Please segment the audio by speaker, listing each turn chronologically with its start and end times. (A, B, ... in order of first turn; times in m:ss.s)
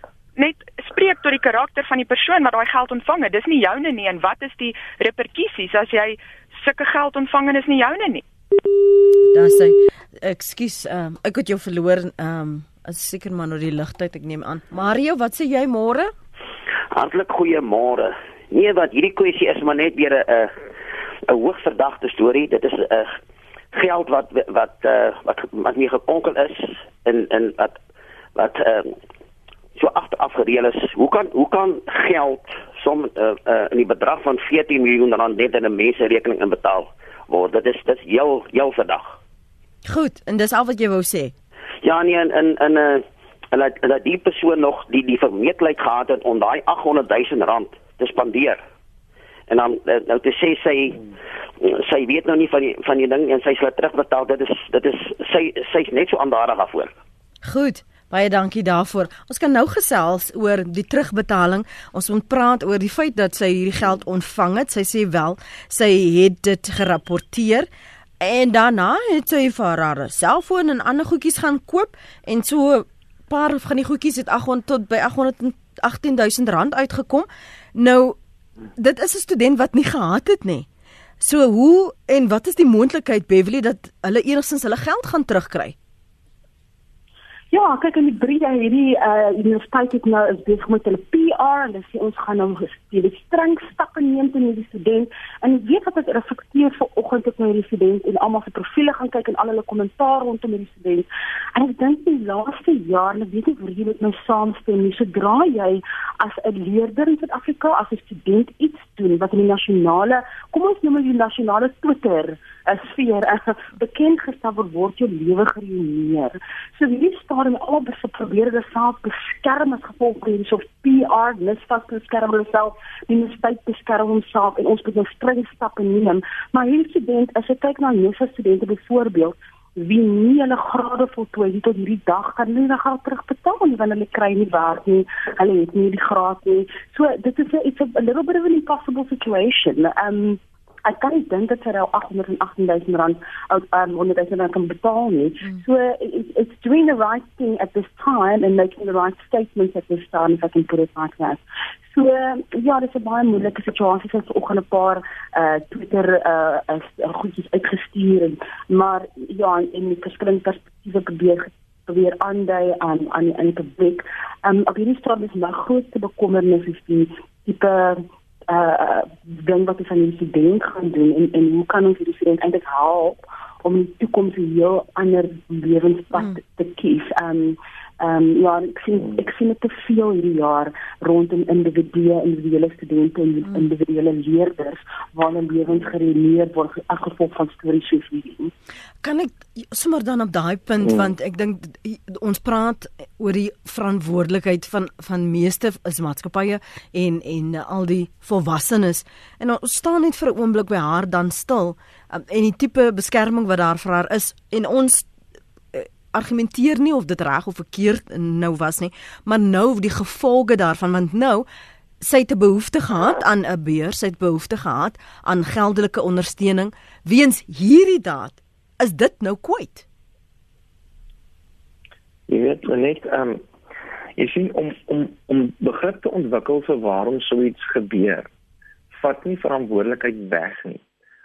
0:00.4-0:08.2 A
0:09.3-0:16.1 B
0:16.9-0:20.6 C
0:21.3-0:23.2 C
0:23.7-0:27.8 C
0:28.3-0:29.0 C
0:29.7-0:39.2 C
0:39.8-0:41.3 B
0:41.8-0:48.6 C
0:49.5-0:51.0 C
0:51.6-0:56.9 C
0:57.4-1:07.7 B
1:08.2-1:18.2 B
1:18.8-1:20.6 B
1:21.2-1:25.7 B
1:27.5-2:31.4 D
2:31.9-3:08.5 D
3:09.0-3:25.1 B
3:25.7-3:31.4 B
3:32.0-3:39.8 B
3:42.3-3:43.4 E
3:44.2-3:48.3 E
3:48.9-3:50.8 E